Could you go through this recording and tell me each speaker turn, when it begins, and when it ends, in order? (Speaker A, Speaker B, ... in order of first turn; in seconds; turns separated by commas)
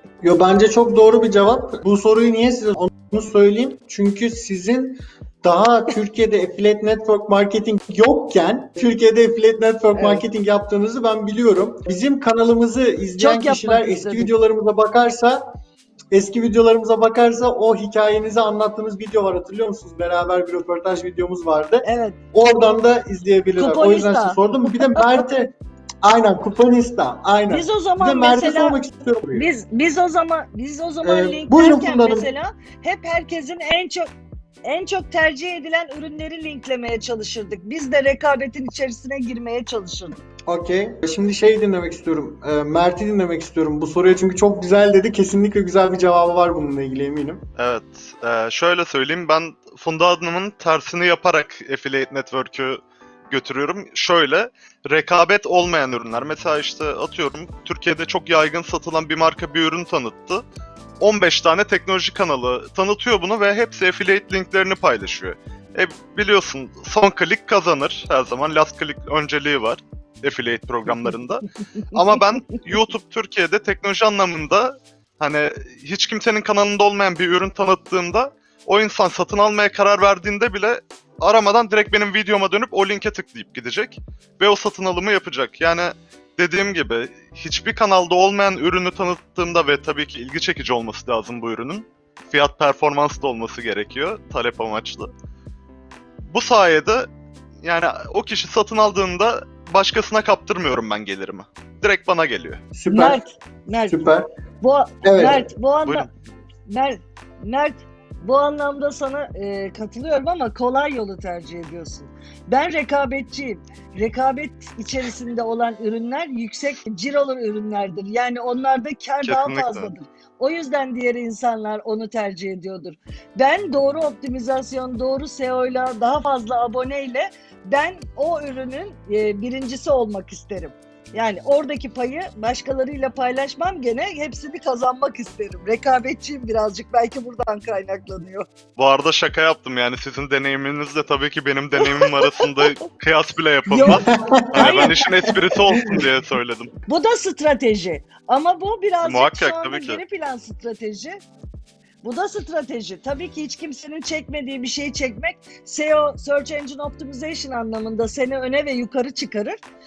Speaker A: 0.2-15.4, Speaker B: 9.9-10.2, Speaker B: 13.2-14.3, Speaker A: 16.1-29.5, Speaker B: 21.8-22.2, Speaker B: 23.6-25.2, Speaker B: 27.5-28.8, Speaker B: 29.3-34.1, Speaker A: 31.0-32.3, Speaker B: 34.6-40.2, Speaker A: 40.5-47.4, Speaker C: 47.6-60.4, Speaker C: 61.0-71.4, Speaker B: 71.8-72.2, Speaker C: 71.9-95.1, Speaker C: 96.3-97.1, Speaker C: 97.6-102.6, Speaker A: 102.7-103.2, Speaker B: 102.9-104.0, Speaker A: 103.9-104.2, Speaker B: 104.6-106.1, Speaker A: 105.0-105.4, Speaker C: 105.8-106.1, Speaker B: 106.7-138.4, Speaker C: 119.2-119.9, Speaker C: 138.8-146.7, Speaker B: 141.8-142.8, Speaker B: 143.7-144.9, Speaker A: 143.8-145.3, Speaker B: 146.9-151.2, Speaker C: 149.0-150.0, Speaker B: 152.0-159.6